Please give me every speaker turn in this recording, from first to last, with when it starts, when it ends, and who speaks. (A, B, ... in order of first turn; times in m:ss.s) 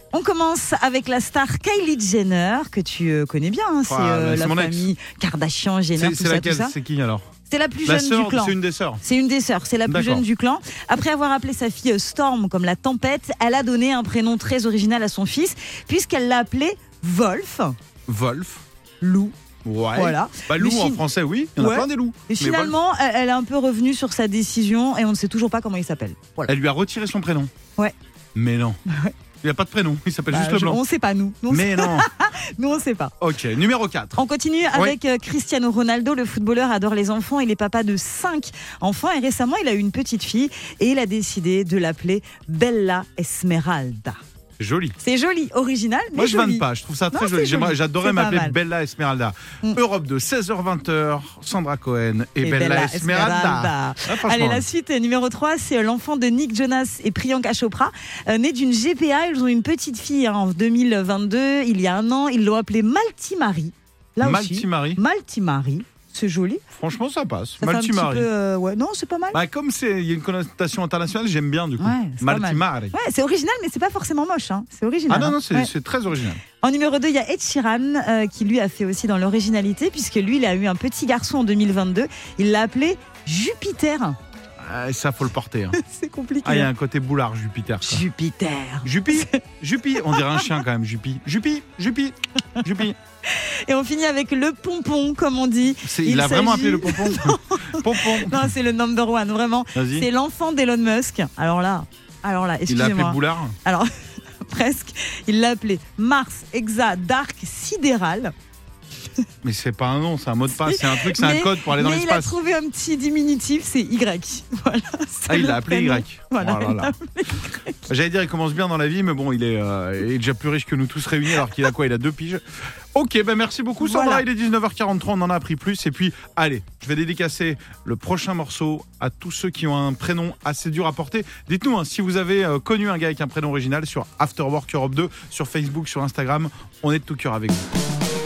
0:00.1-0:06.7 A
0:03.8-0:04.9 B
0:06.0-0:07.2 B
0:07.5-0:17.7 A
0:07.8-0:09.0 B
0:09.9-0:10.2 B
0:18.1-0:18.6 B
0:19.0-0:19.3 A
0:19.6-0:22.7 B
0:19.9-0:21.0 A
0:21.6-0:26.5 A
0:26.5-0:27.5 B
0:28.3-0:28.8 B
0:28.9-0:29.1 A
0:29.4-0:30.8 B
0:30.3-0:33.1 A
0:31.5-0:32.1 B
0:33.2-0:34.2 B
0:34.2-0:44.2 A
0:44.6-0:45.0 B
0:45.0-0:48.6 A
0:46.1-0:54.6 B
0:52.4-1:06.6 A
1:04.2-1:05.0 B
1:06.7-1:08.3 B
1:07.6-1:09.4 A
1:09.3-1:12.9 B
1:11.8-1:15.7 A
1:15.1-1:16.4 B
1:16.6-1:24.2 A
1:24.6-1:25.8 B
1:25.8-1:26.7 A
1:26.4-1:28.0 B
1:27.8-1:29.4 A
1:28.8-1:33.0 B
1:30.0-1:30.5 A
1:33.3-1:48.3 A
1:35.8-1:38.5 B
1:39.7-1:40.1 B
1:42.7-1:43.6 B
1:49.4-1:52.4 B
1:50.5-1:57.8 A
1:55.3-1:56.9 B
1:57.9-2:02.4 B
2:02.9-2:17.6 B
2:03.8-2:04.2 A